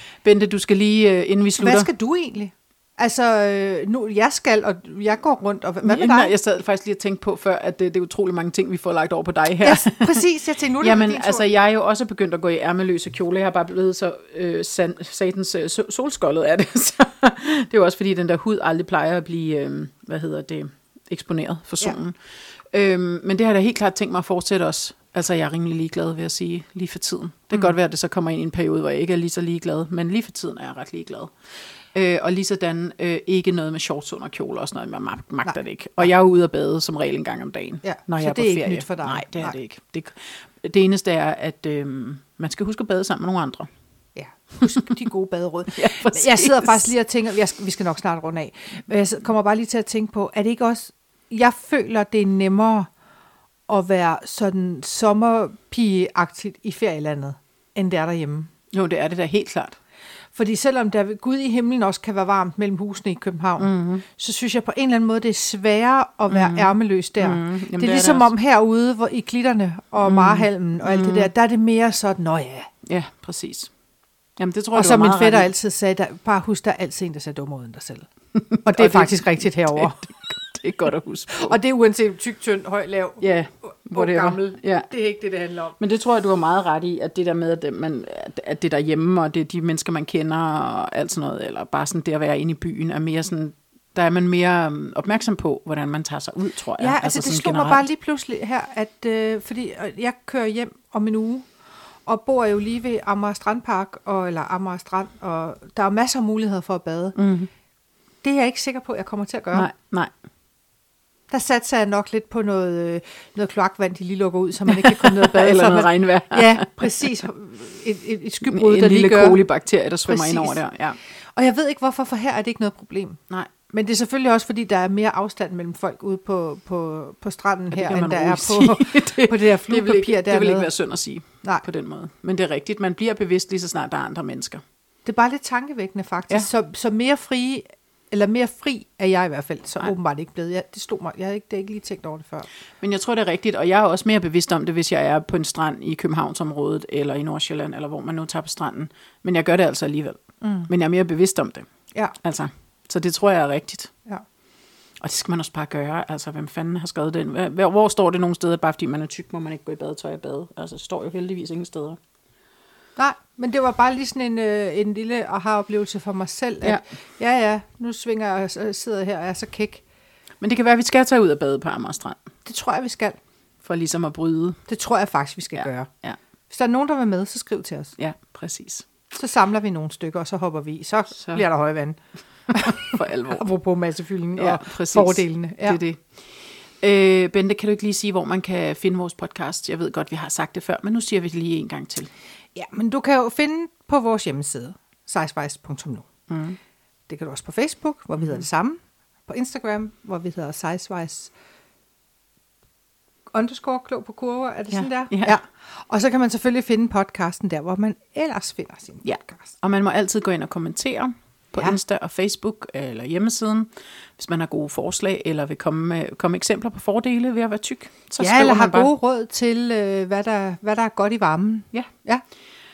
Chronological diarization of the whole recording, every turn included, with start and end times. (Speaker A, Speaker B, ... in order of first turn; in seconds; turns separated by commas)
Speaker A: 0.2-1.9, Speaker B: 1.6-6.3, Speaker A: 5.8-10.2, Speaker B: 9.6-11.5, Speaker A: 10.8-22.2, Speaker A: 22.7-31.3, Speaker A: 31.9-43.7, Speaker B: 35.5-36.1, Speaker B: 37.8-39.6, Speaker B: 44.2-52.9, Speaker A: 45.7-46.9, Speaker B: 53.7-58.5, Speaker A: 58.7-59.8, Speaker B: 60.3-72.7, Speaker A: 63.6-64.0, Speaker A: 66.3-68.3, Speaker A: 70.0-71.3, Speaker A: 72.9-73.7, Speaker A: 74.4-75.5, Speaker B: 74.7-78.1, Speaker A: 78.4-81.6, Speaker B: 78.6-80.0, Speaker B: 81.3-85.8, Speaker A: 83.2-84.9, Speaker A: 85.8-97.9, Speaker B: 96.8-101.5, Speaker B: 102.1-107.2, Speaker A: 107.2-107.5, Speaker B: 108.2-109.7, Speaker A: 109.5-110.1, Speaker B: 111.3-119.4, Speaker A: 114.7-116.9, Speaker A: 118.4-121.0, Speaker B: 120.1-120.6, Speaker B: 121.3-130.7, Speaker A: 127.7-134.6, Speaker B: 135.1-142.5, Speaker A: 142.8-151.7, Speaker B: 150.4-150.7, Speaker A: 152.2-153.9, Speaker A: 155.0-162.0, Speaker B: 163.0-169.8, Speaker A: 170.4-172.2, Speaker B: 172.5-173.2, Speaker A: 173.6-174.6, Speaker B: 174.7-175.9, Speaker A: 175.6-176.2, Speaker B: 176.5-177.9, Speaker A: 178.0-178.9, Speaker B: 179.1-182.0, Speaker A: 181.2-181.4, Speaker B: 182.5-185.8, Speaker A: 182.5-183.4, Speaker A: 184.4-186.1, Speaker A: 186.8-192.1, Speaker B: 192.6-196.1, Speaker A: 196.3-196.6, Speaker B: 197.1-201.3, Speaker B: 203.3-209.5, Speaker A: 204.7-205.4, Speaker A: 209.0-218.9, Speaker B: 218.2-222.2